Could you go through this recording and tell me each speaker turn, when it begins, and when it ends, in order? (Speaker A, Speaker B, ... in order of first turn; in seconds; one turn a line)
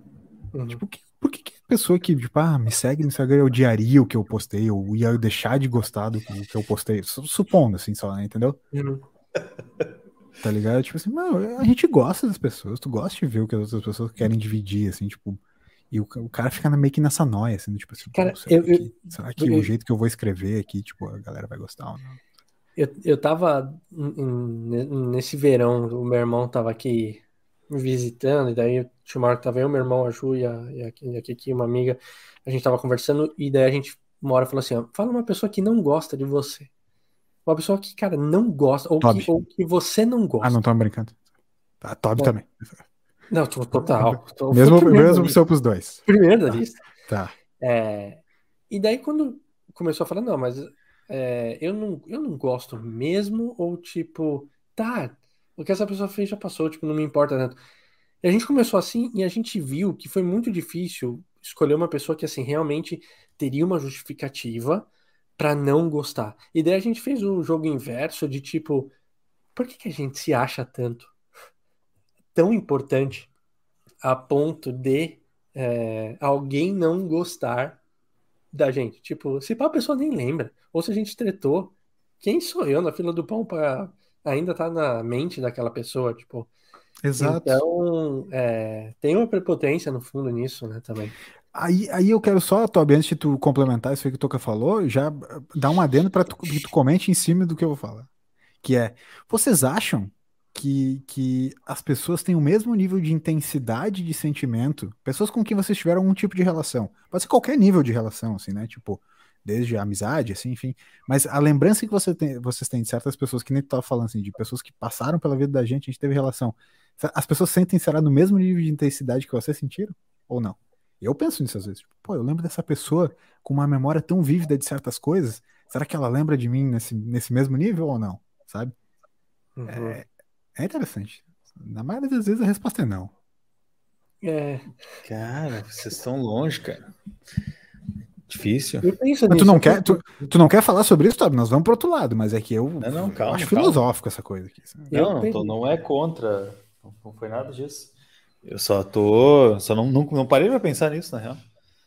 Speaker A: 0.5-0.8
Speaker B: 0.7-8.6
Speaker A: 8.7-9.0
Speaker B: 10.4-22.2
Speaker A: 18.1-19.7
Speaker A: 22.8-36.7
Speaker A: 37.5-40.6
Speaker B: 39.0-39.3
Speaker B: 40.4-41.2
Speaker B: 41.8-42.8
Speaker A: 43.3-45.4
Speaker B: 43.9-47.3
Speaker A: 46.1-46.9
Speaker A: 47.6-57.6
Speaker A: 58.2-68.9
Speaker A: 69.5-71.1
Speaker A: 72.3-73.3
Speaker A: 74.0-77.8
Speaker A: 78.5-86.5
Speaker B: 87.0-87.6
Speaker A: 87.2-91.2
Speaker B: 91.5-98.1
Speaker B: 98.6-128.7
Speaker A: 129.6-130.0
Speaker B: 129.7-133.1
Speaker A: 134.2-134.7
Speaker C: 135.0-136.9
Speaker C: 138.3-138.9
Speaker A: 138.8-140.2
Speaker B: 139.3-144.9
Speaker C: 142.8-143.8
Speaker A: 144.9-145.4
Speaker C: 144.9-147.9
Speaker C: 148.4-151.4